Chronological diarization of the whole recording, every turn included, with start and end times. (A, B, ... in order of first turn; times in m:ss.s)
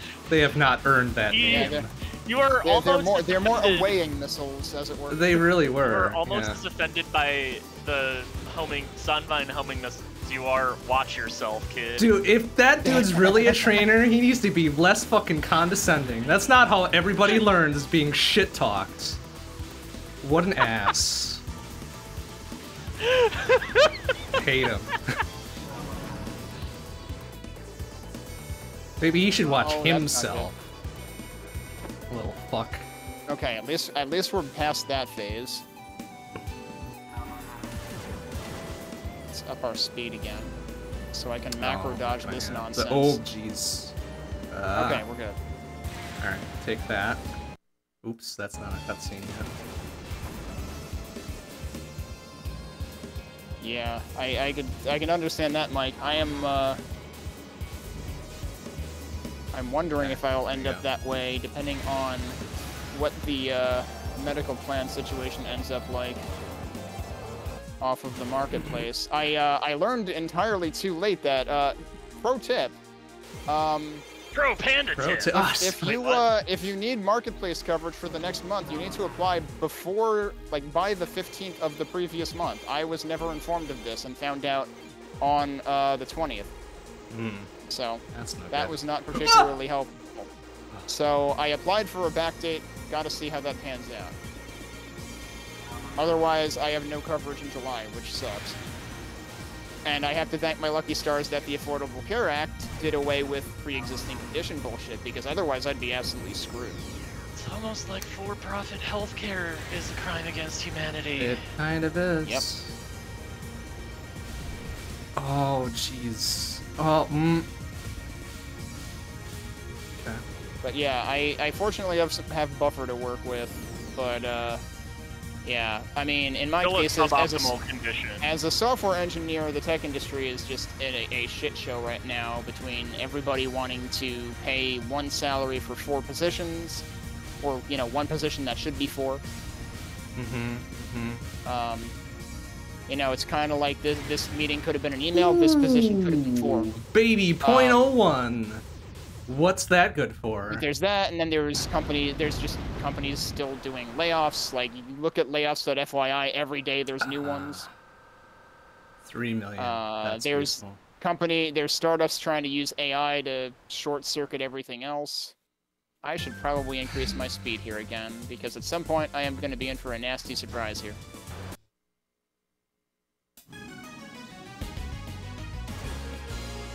0:00.3-0:01.9 A
0:01.3-0:03.9 B
0:01.5-0:01.9 C
0:02.6-0:05.4 C
0:05.1-0:06.6 A
0:05.8-0:12.1 B
0:12.0-0:19.2 A
0:12.8-0:13.8 C
0:20.2-0:21.4 A
0:23.0-0:23.9 B
0:24.3-0:25.0 A
0:29.0-0:30.6 A
0:29.5-0:30.5 C
0:32.1-0:32.9 A
0:33.3-0:35.6 C
0:39.3-0:40.5 C
0:41.1-0:43.2 C
0:41.6-0:43.9 A
0:44.5-0:45.0 A
0:44.8-0:45.4 C
0:46.2-0:47.3 A
0:48.0-0:49.5 A
0:53.6-0:56.8 C
0:59.5-1:02.4 C
1:00.0-1:00.8 A
1:02.9-1:06.2 C
1:07.8-1:12.8 C
1:08.5-1:08.9 A
1:13.5-1:14.0 C
1:14.3-1:16.3 B
1:15.0-1:15.9 A
1:15.3-1:26.5 C
1:27.1-1:27.5 A
1:27.7-1:30.3 C
1:28.1-1:29.5 A
1:30.9-1:34.1 C
1:36.0-1:38.6 C
1:39.8-1:46.8 C
1:47.3-1:51.4 B
1:51.2-1:52.8 A
1:55.2-1:57.5 A
1:59.9-2:00.2 A
2:00.6-2:04.6 C
2:05.4-2:07.6 C
2:06.6-2:08.2 B
2:08.2-2:16.8 C
2:17.4-2:19.2 C
2:20.1-2:21.2 A
2:21.4-2:21.9 C
2:22.9-2:26.8 C
2:25.1-2:28.6 A
2:27.4-2:27.8 C
2:29.3-2:30.6 A
2:30.5-2:37.6 C
2:37.0-2:37.7 A
2:39.0-2:40.8 A
2:39.6-2:45.3 C
2:46.0-2:51.0 C